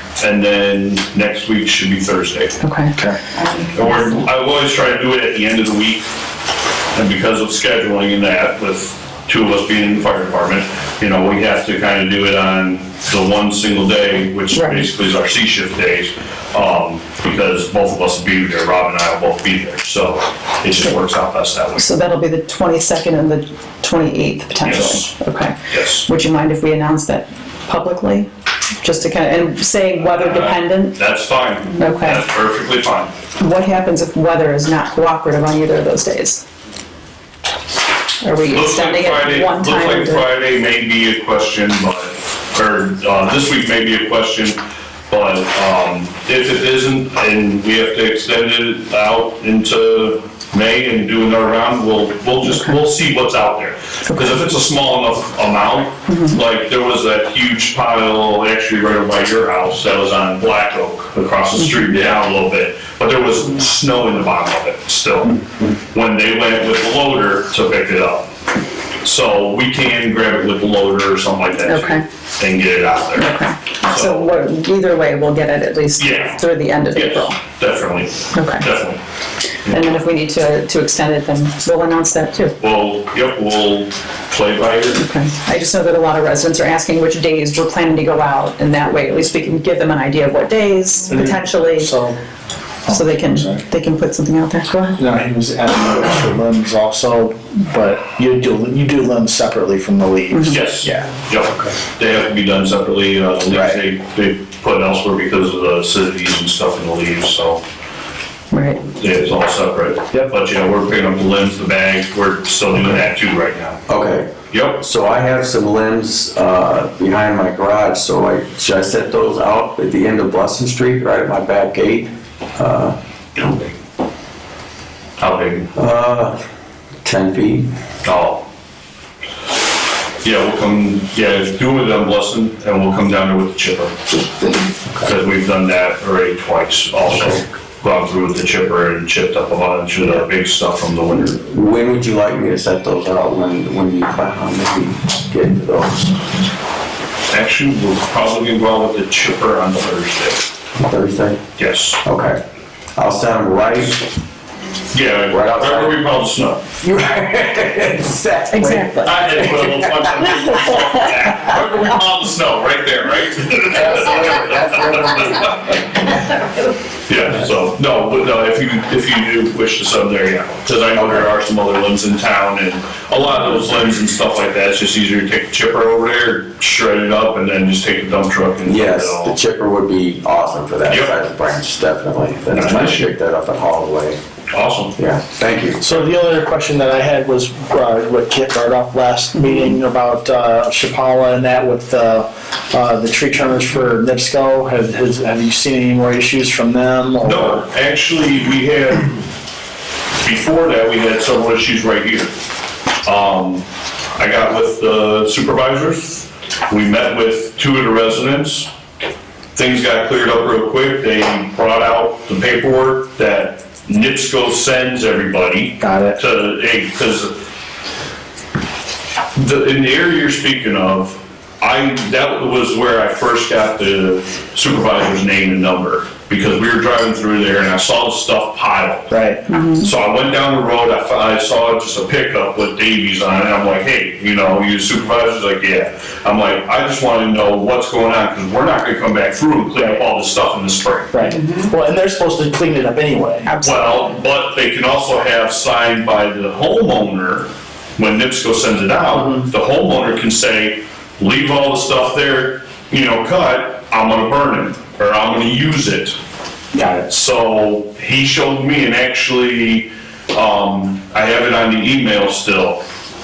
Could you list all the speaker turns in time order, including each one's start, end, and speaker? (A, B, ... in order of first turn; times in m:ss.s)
0:00.2-0:02.6 A
0:02.6-0:03.7 B
0:03.7-0:06.1 A
0:06.9-0:21.9 A
0:14.5-0:14.8 B
0:21.8-0:28.3 B
0:24.6-0:25.1 A
0:25.7-0:26.1 A
0:28.8-0:31.0 B
0:30.0-0:33.1 A
0:31.8-0:32.2 B
0:33.4-0:36.4 B
0:38.2-0:40.2 B
0:38.5-1:08.3 A
0:52.4-0:52.7 B
0:56.1-0:56.4 B
1:01.6-1:02.0 B
1:09.0-1:14.3 A
1:11.6-1:12.0 B
1:13.2-1:17.4 B
1:16.0-1:16.4 A
1:16.9-1:19.0 A
1:18.3-1:18.6 B
1:19.7-1:22.6 B
1:22.6-1:25.0 A
1:24.9-1:31.9 B
1:31.1-1:32.2 C
1:32.8-1:33.6 C
1:32.9-1:35.0 B
1:35.0-1:40.6 C
1:40.3-1:40.6 B
1:40.5-1:47.6 A
1:40.8-1:41.7 D
1:43.5-1:43.8 D
1:48.5-1:48.8 B
1:48.8-1:53.8 A
1:53.9-2:03.6 D
1:54.5-1:54.8 A
2:05.2-2:05.7 A
2:05.7-2:06.4 D
2:07.0-2:07.7 D
2:08.0-2:08.4 A
2:10.2-2:14.2 A
2:15.0-2:21.4 A
2:21.1-2:26.2 D
2:27.3-2:30.4 A
2:30.8-2:31.4 D
2:31.6-2:32.0 A
2:32.0-2:32.4 D
2:33.0-2:34.0 D
2:34.9-2:36.7 A
2:35.3-2:36.0 D
2:36.8-2:40.2 D
2:38.5-2:39.1 B
2:39.0-2:46.0 A
2:43.7-2:45.5 D
2:47.1-2:59.4 A
2:51.0-2:51.2 D
2:58.6-3:04.2 D
3:02.5-3:03.1 A
3:04.5-3:05.0 A
3:05.0-3:06.0 D
3:05.8-3:17.6 C
3:17.2-3:19.2 A
3:20.2-3:22.3 A
3:23.0-3:28.7 A
3:29.5-3:37.4 A
3:35.8-3:36.2 C
3:39.3-3:49.1 A
3:49.1-3:49.4 C
3:49.5-3:49.9 B
3:49.8-4:01.3 A
3:59.8-4:00.0 C
4:01.1-4:03.5 C
4:03.4-4:04.0 B
4:03.6-4:16.2 A
4:16.8-4:17.0 C
4:16.8-4:22.8 A